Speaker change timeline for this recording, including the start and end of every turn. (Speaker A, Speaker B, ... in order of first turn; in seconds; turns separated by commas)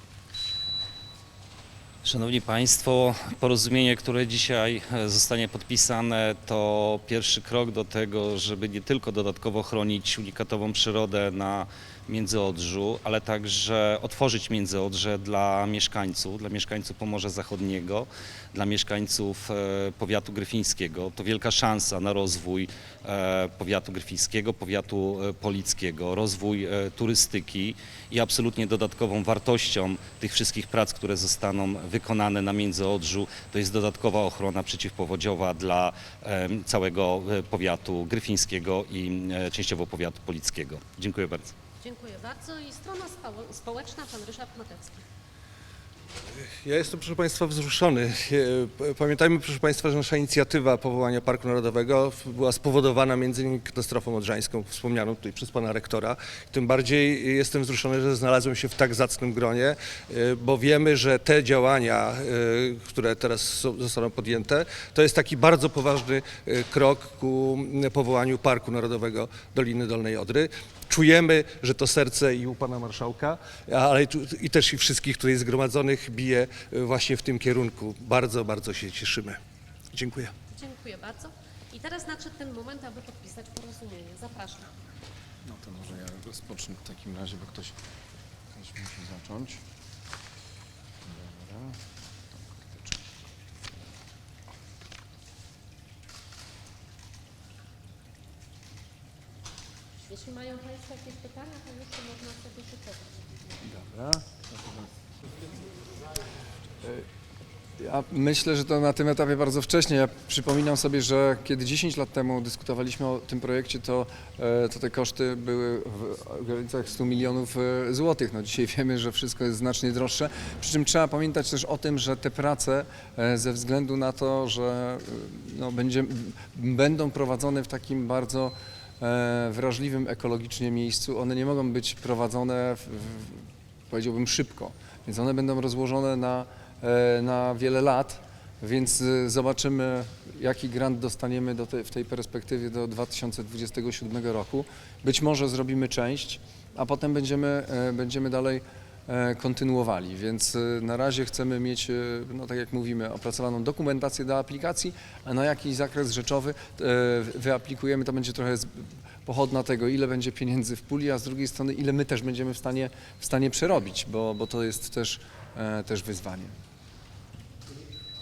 Speaker A: 2.0-41.5, Speaker B: 41.8-45.0, Speaker C: 46.4-79.4, Speaker C: 79.9-80.3, Speaker B: 80.5-84.7, Speaker D: 85.5-87.8, Speaker D: 88.5-89.6, Speaker D: 91.0-91.8, Speaker D: 92.4-93.0, Speaker B: 100.0-103.2, Speaker D: 103.6-104.8, Speaker D: 107.8-166.5